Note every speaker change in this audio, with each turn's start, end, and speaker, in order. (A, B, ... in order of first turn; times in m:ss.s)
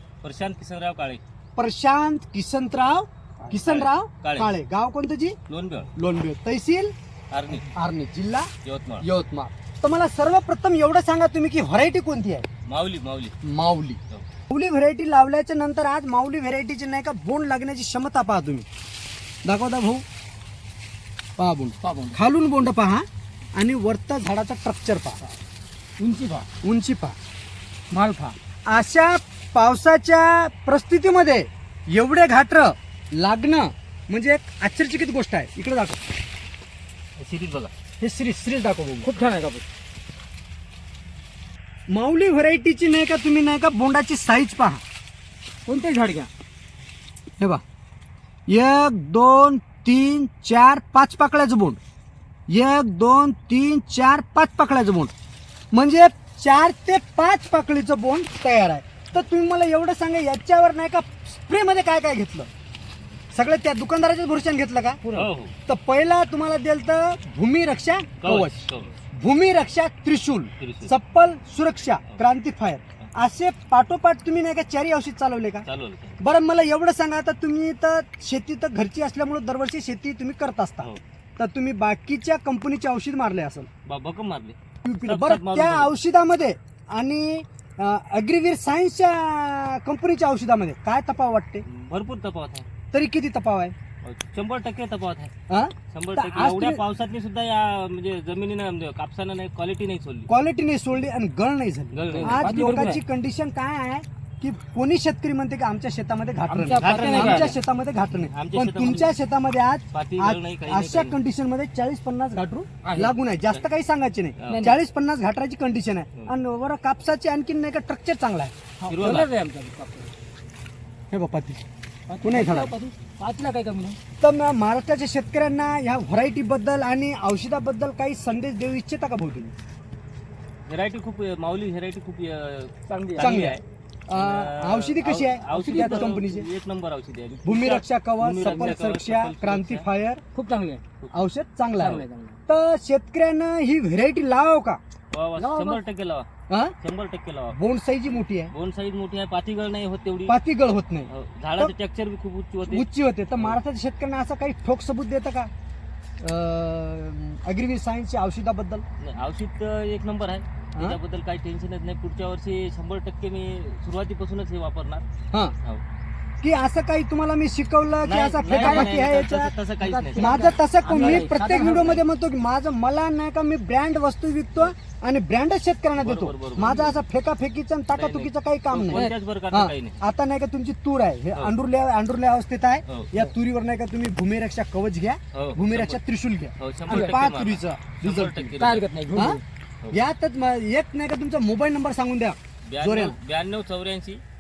0:00.2-0:01.2 A
0:01.6-0:05.4 B
0:03.5-0:04.5 A
0:05.5-0:05.9 A
0:06.0-0:06.9 B
0:07.3-0:07.7 A
0:07.6-0:08.5 B
0:08.6-0:09.0 A
0:09.0-0:12.5 B
0:12.7-0:13.4 A
0:13.4-0:14.0 B
0:14.5-0:18.6 B
0:19.4-0:20.0 B
0:21.4-0:25.2 B
0:21.8-0:22.2 C
0:26.0-0:26.5 C
0:26.6-0:27.2 B
0:27.9-0:36.0 B
0:37.2-0:37.7 A
0:38.0-0:39.1 B
0:39.0-0:39.6 C
0:41.9-0:44.8 B
0:45.6-0:46.3 C
0:48.5-0:51.8 B
0:52.5-0:55.1 B
0:55.7-1:02.5 B
1:03.3-1:05.0 B
1:05.0-1:05.3 C
1:05.1-1:05.5 A
1:05.7-1:15.6 B
1:08.2-1:09.0 A
1:10.6-1:10.9 A
1:15.6-1:16.2 A
1:16.2-1:23.7 B
1:23.8-1:25.9 A
1:24.8-1:31.6 B
1:31.6-1:32.7 A
1:32.9-1:33.7 B
1:34.0-1:35.3 A
1:35.5-1:36.8 B
1:35.9-1:40.3 A
1:40.3-1:58.5 B
1:41.9-1:42.5 A
1:42.1-1:43.0 C
1:46.5-1:47.5 C
1:46.8-1:47.6 A
1:48.3-1:49.1 A
1:49.9-1:51.2 A
1:52.8-1:53.1 C
1:54.4-1:54.7 A
1:54.5-1:54.8 C
1:58.8-2:00.1 C
1:58.8-1:59.3 A
2:01.1-2:01.6 B
2:02.1-2:04.0 C
2:02.2-2:02.7 B
2:04.2-2:09.5 B
2:10.7-2:19.8 A
2:12.9-2:13.3 C
2:13.2-2:16.5 B
2:15.5-2:16.2 C
2:17.4-2:20.2 B
2:20.3-2:20.8 C
2:21.1-2:24.8 B
2:21.8-2:22.4 C
2:25.1-2:26.3 A
2:25.4-2:25.8 C
2:26.8-2:30.4 A
2:27.5-2:28.5 B
2:30.3-2:31.7 B
2:31.1-2:33.6 A
2:32.7-2:35.5 B
2:36.2-2:38.8 B
2:39.0-2:45.0 A
2:46.4-2:49.5 B
2:48.0-2:51.2 A
2:48.4-2:49.0 C
2:49.8-2:52.0 C
2:50.2-3:08.5 B
2:56.0-2:57.0 A
2:57.9-3:00.0 A
3:02.9-3:03.1 A
3:05.3-3:06.0 A
3:06.6-3:08.9 A
3:06.9-3:07.2 C
3:08.6-3:09.4 C
3:09.1-3:09.4 B
3:09.9-3:13.2 B
3:12.6-3:14.2 A